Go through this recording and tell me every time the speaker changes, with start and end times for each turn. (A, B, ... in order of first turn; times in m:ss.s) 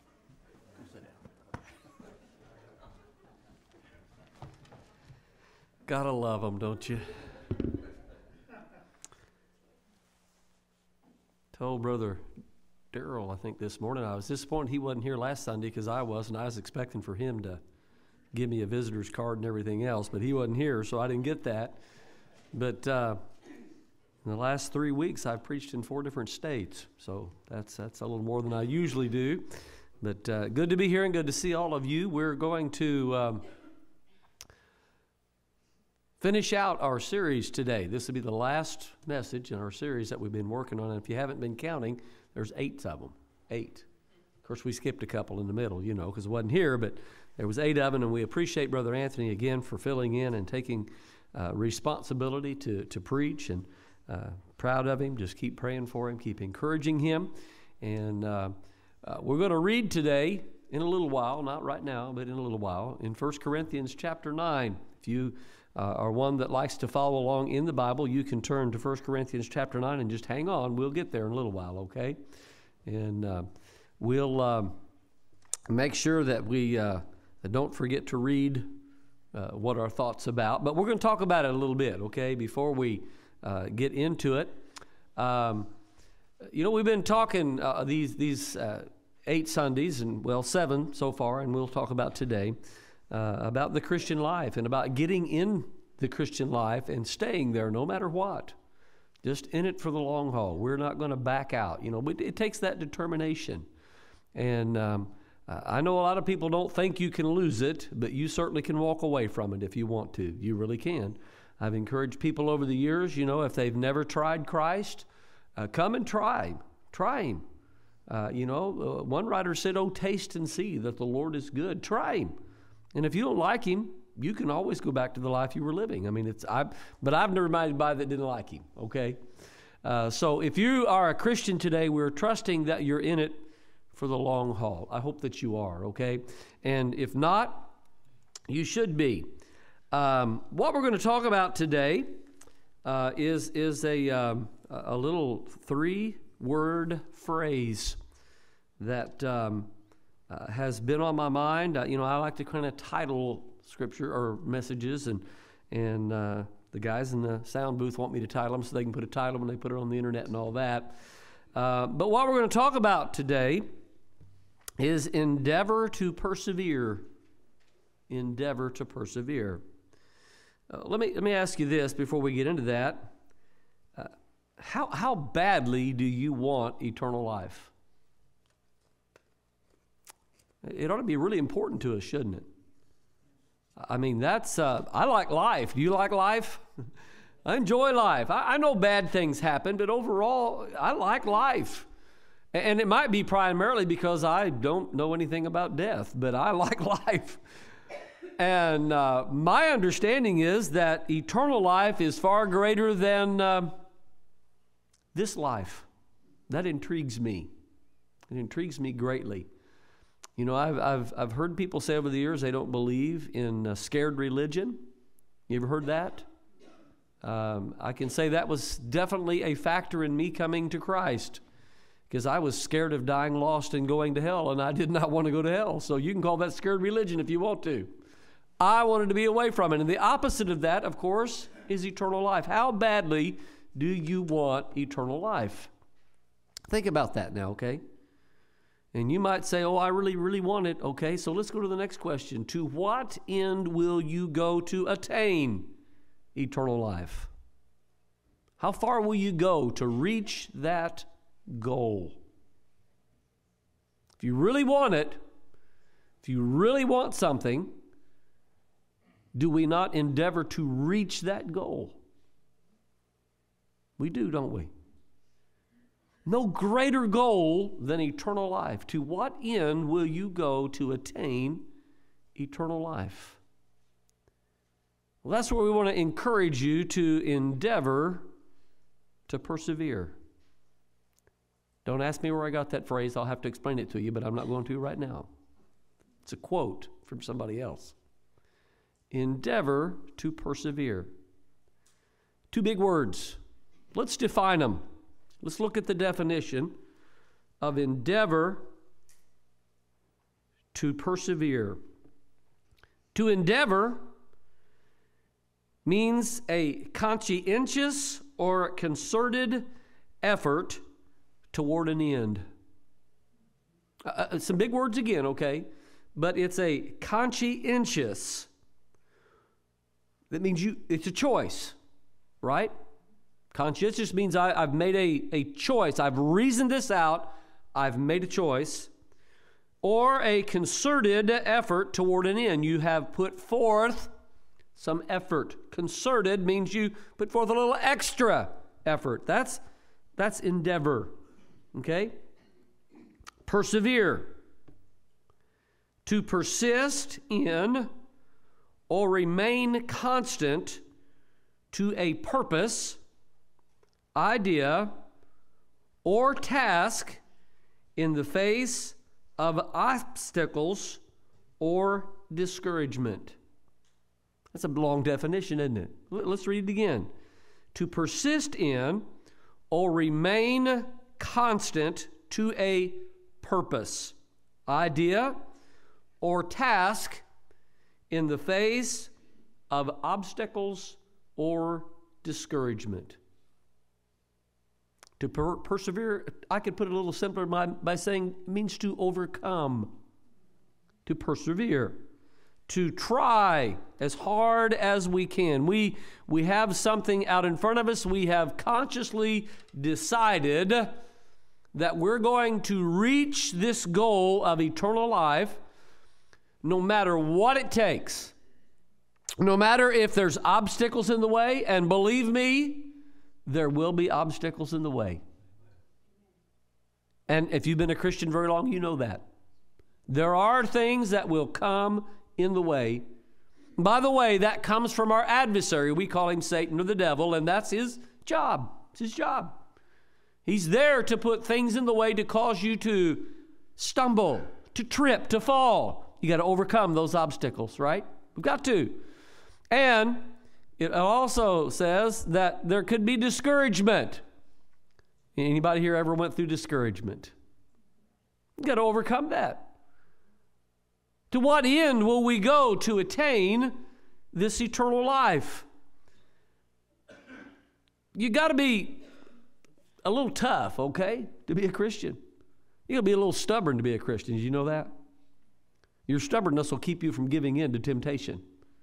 0:05.9-0:07.2 A
0:11.5-0:12.2 A
0:12.9-0:17.6 A
0:18.3-0:21.8 A
0:22.5-0:23.2 A
0:24.2-0:33.4 A
0:36.2-0:43.9 A
0:44.4-1:12.2 A
1:12.8-1:14.8 A
1:15.7-1:18.7 A
1:19.3-1:24.6 A
1:25.2-1:25.7 A
1:26.5-1:32.6 A
1:33.1-1:38.6 A
1:39.2-1:43.6 A
1:44.3-1:57.4 A
1:58.1-2:02.4 A
2:02.9-2:09.2 A
2:09.8-2:17.7 A
2:18.5-2:19.3 A
2:19.9-2:22.2 A
2:22.8-2:28.0 A
2:28.8-2:29.7 A
2:30.3-2:41.0 A
2:41.5-2:43.7 A
2:44.8-2:47.0 A
2:48.1-2:49.6 A
2:50.7-2:53.1 A
2:54.0-2:57.7 A
3:00.6-3:02.4 A
3:03.8-3:06.6 A
3:07.4-3:11.8 A
3:12.5-3:17.4 A
3:18.4-3:23.8 A
3:25.1-3:25.8 A
3:26.5-3:27.5 A
3:28.3-3:29.5 A
3:30.4-3:34.9 A
3:35.5-3:36.2 A
3:37.2-3:41.4 A
3:42.1-3:47.9 A
3:48.6-3:55.7 A
3:56.7-3:57.8 A
3:58.9-4:05.8 A
4:06.3-4:07.3 A
4:08.6-4:12.2 A
4:14.2-4:15.2 A
4:16.2-4:17.8 A
4:19.3-4:22.0 A
4:24.0-4:24.7 A
4:26.2-4:31.7 A
4:32.3-4:33.4 A
4:35.2-4:38.3 A
4:39.3-4:40.2 A
4:41.8-4:45.3 A
4:46.2-4:47.9 A
4:49.1-4:51.1 A
4:52.5-4:53.4 A
4:53.9-4:54.8 A
4:55.4-4:56.8 A
4:57.6-4:58.7 A
5:00.7-5:01.8 A
5:03.1-5:04.0 A
5:05.8-5:09.7 A
5:10.2-5:10.8 A
5:11.5-5:12.4 A
5:14.0-5:18.5 A
5:20.3-5:21.8 A
5:22.4-5:22.7 A
5:23.5-5:28.9 A
5:29.8-5:34.1 A
5:34.7-5:39.6 A
5:40.2-5:41.1 A
5:41.7-5:42.2 A
5:43.4-5:44.3 A
5:46.0-5:47.9 A
5:48.9-5:50.8 A
5:51.7-5:53.0 A
5:54.1-5:54.9 A
5:56.0-5:57.2 A
5:58.0-6:01.0 A
6:01.6-6:03.4 A
6:04.5-6:07.1 A
6:07.7-6:09.1 A
6:09.7-6:14.2 A
6:14.7-6:15.4 A
6:16.2-6:17.2 A
6:18.1-6:19.1 A
6:19.7-6:23.2 A
6:25.2-6:30.0 A
6:31.0-6:32.0 A
6:32.7-6:40.9 A
6:41.7-6:45.6 A
6:46.6-6:48.3 A
6:49.4-6:52.9 A
6:53.4-6:55.2 A
6:57.3-6:59.2 A
7:00.1-7:03.0 A
7:03.8-7:09.6 A
7:10.4-7:19.0 A
7:19.7-7:24.2 A
7:25.4-7:27.3 A
7:28.6-7:29.7 A
7:31.3-7:33.8 A
7:34.3-7:35.6 A
7:38.1-7:39.0 A
7:40.0-7:42.2 A
7:42.9-7:44.9 A
7:46.1-7:48.4 A